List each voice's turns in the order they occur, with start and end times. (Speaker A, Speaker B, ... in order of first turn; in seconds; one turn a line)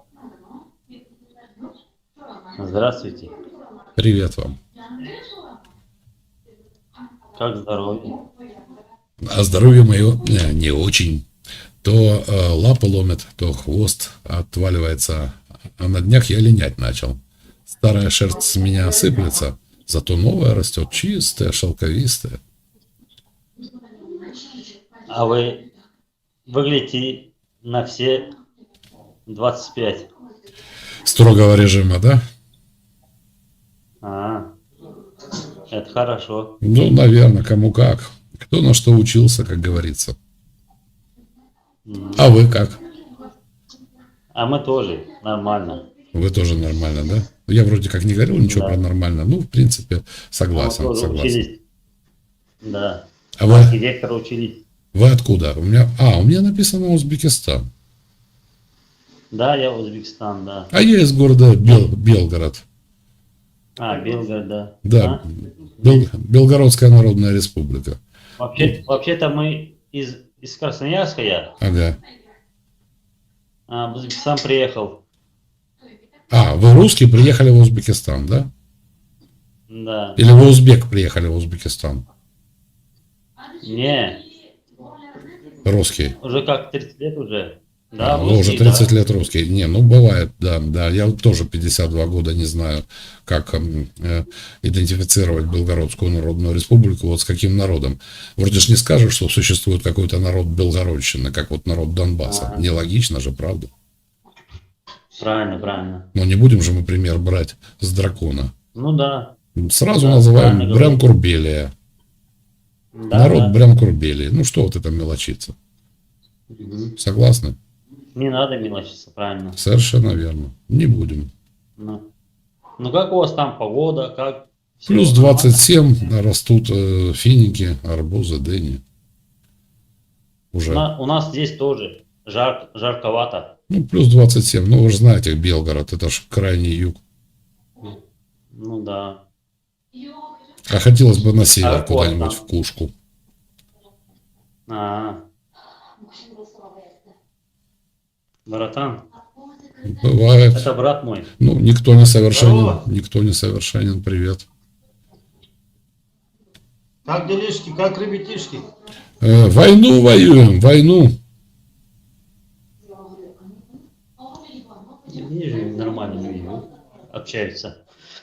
Speaker A: 2.6-3.3
Speaker B: 4.0-4.6
Speaker A: 7.4-8.2
Speaker B: 9.2-11.2
Speaker B: 11.8-22.4
Speaker A: 25.1-25.6
Speaker A: 26.5-28.3
Speaker A: 29.3-30.1
Speaker B: 31.1-32.2
Speaker A: 34.0-34.5
Speaker A: 35.7-36.5
Speaker B: 36.6-40.2
Speaker A: 41.9-42.3
Speaker B: 42.2-42.8
Speaker A: 44.3-45.8
Speaker B: 46.1-51.4
Speaker A: 48.4-48.8
Speaker A: 50.5-51.6
Speaker A: 52.6-54.6
Speaker B: 53.4-53.8
Speaker B: 54.9-57.7
Speaker A: 59.3-60.7
Speaker B: 60.7-62.6
Speaker A: 63.8-65.2
Speaker B: 64.8-65.2
Speaker B: 65.8-68.0
Speaker A: 68.4-71.5
Speaker B: 71.6-72.0
Speaker A: 73.7-75.0
Speaker B: 76.3-78.5
Speaker A: 79.7-80.2
Speaker B: 80.2-82.0
Speaker A: 83.6-84.2
Speaker B: 85.7-86.2
Speaker A: 86.2-88.9
Speaker B: 88.0-103.7
Speaker A: 102.2-102.6
Speaker A: 105.1-106.1
Speaker B: 106.2-108.5
Speaker A: 108.7-109.3
Speaker B: 109.6-111.7
Speaker A: 109.9-111.0
Speaker A: 112.9-113.6
Speaker B: 113.1-115.5
Speaker A: 116.5-116.9
Speaker B: 117.0-117.6
Speaker A: 118.2-119.6
Speaker B: 119.6-121.3
Speaker A: 121.8-122.0
Speaker A: 122.8-125.7
Speaker B: 124.9-128.8
Speaker B: 130.5-130.9
Speaker A: 130.7-133.5
Speaker B: 133.7-137.0
Speaker A: 138.5-139.2
Speaker B: 140.7-142.9
Speaker A: 141.6-142.4
Speaker A: 144.7-145.2
Speaker A: 148.5-149.0
Speaker B: 149.9-150.6
Speaker A: 150.5-151.3
Speaker B: 151.4-154.4
Speaker C: 152.3-152.8
Speaker C: 157.1-158.6
Speaker B: 159.2-161.2
Speaker A: 165.1-167.8